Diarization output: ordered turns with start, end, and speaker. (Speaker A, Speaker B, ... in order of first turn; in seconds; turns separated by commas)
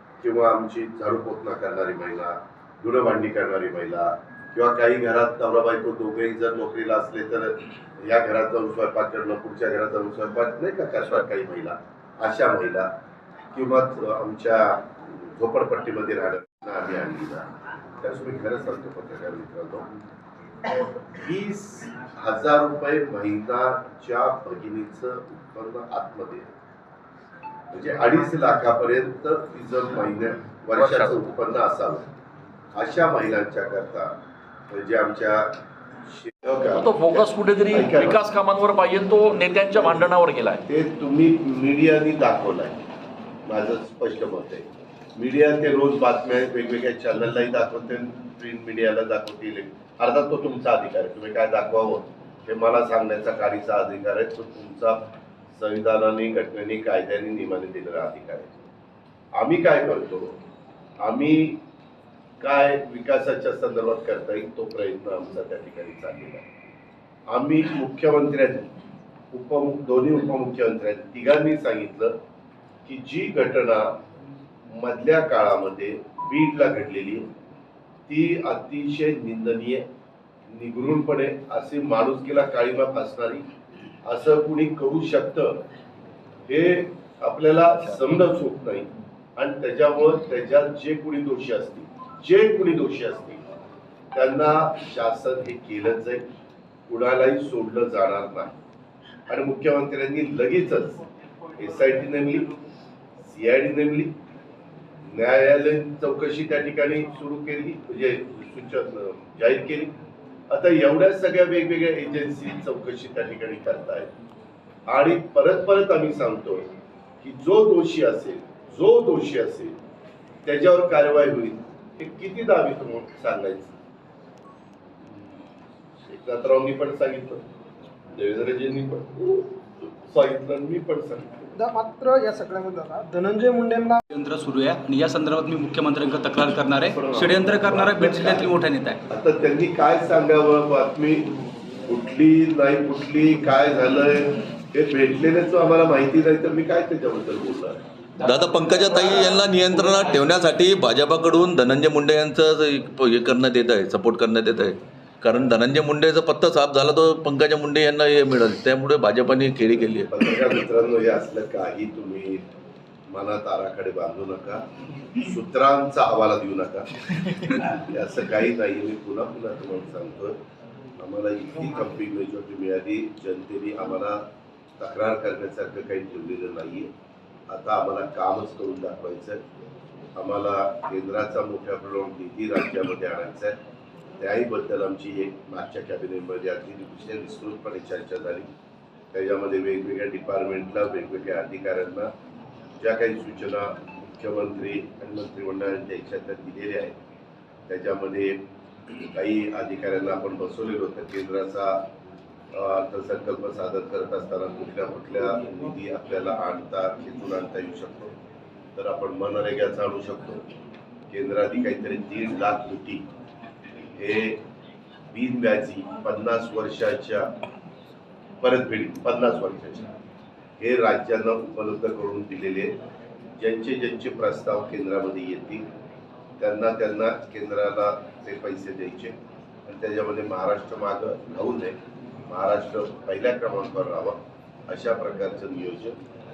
Speaker A: 0.2-12.9, Speaker A: 13.5-17.5, Speaker A: 18.0-19.9, Speaker A: 21.0-26.5, Speaker A: 27.7-32.1, Speaker B: 30.8-31.1, Speaker A: 32.8-34.1, Speaker A: 34.7-38.2, Speaker B: 36.8-40.6, Speaker A: 39.6-42.8, Speaker A: 43.5-58.7, Speaker A: 59.4-60.4, Speaker A: 61.0-61.6, Speaker A: 62.4-66.5, Speaker A: 67.3-68.7, Speaker A: 69.3-72.1, Speaker A: 72.8-73.9, Speaker A: 74.7-77.3, Speaker A: 78.1-79.8, Speaker A: 80.5-83.4, Speaker A: 84.0-85.6, Speaker A: 86.5-93.4, Speaker A: 94.1-96.2, Speaker A: 96.9-98.5, Speaker A: 99.3-101.0, Speaker A: 101.6-102.5, Speaker A: 103.2-104.1, Speaker A: 105.0-109.9, Speaker A: 110.5-114.1, Speaker A: 114.9-116.7, Speaker A: 117.2-119.8, Speaker A: 120.4-123.7, Speaker A: 126.1-127.4, Speaker A: 128.2-131.6, Speaker C: 131.6-134.0, Speaker D: 134.1-139.0, Speaker A: 136.8-138.5, Speaker A: 139.1-141.3, Speaker A: 141.9-147.8, Speaker E: 148.2-160.2, Speaker A: 160.1-162.4, Speaker A: 163.1-164.6, Speaker A: 165.2-166.9, Speaker A: 167.4-170.3, Speaker A: 171.0-174.2, Speaker A: 174.8-176.9, Speaker A: 177.5-179.4, Speaker A: 180.2-183.5, Speaker A: 184.2-188.5, Speaker A: 189.1-192.1, Speaker A: 192.8-197.0, Speaker A: 197.7-198.4, Speaker A: 199.1-201.8, Speaker A: 202.5-208.2, Speaker A: 208.8-210.4, Speaker A: 211.1-213.1, Speaker A: 214.0-214.4, Speaker A: 215.1-217.3, Speaker A: 218.4-219.9, Speaker A: 220.6-222.7, Speaker A: 223.4-225.6, Speaker A: 226.4-231.8, Speaker A: 232.3-234.2, Speaker A: 234.7-236.0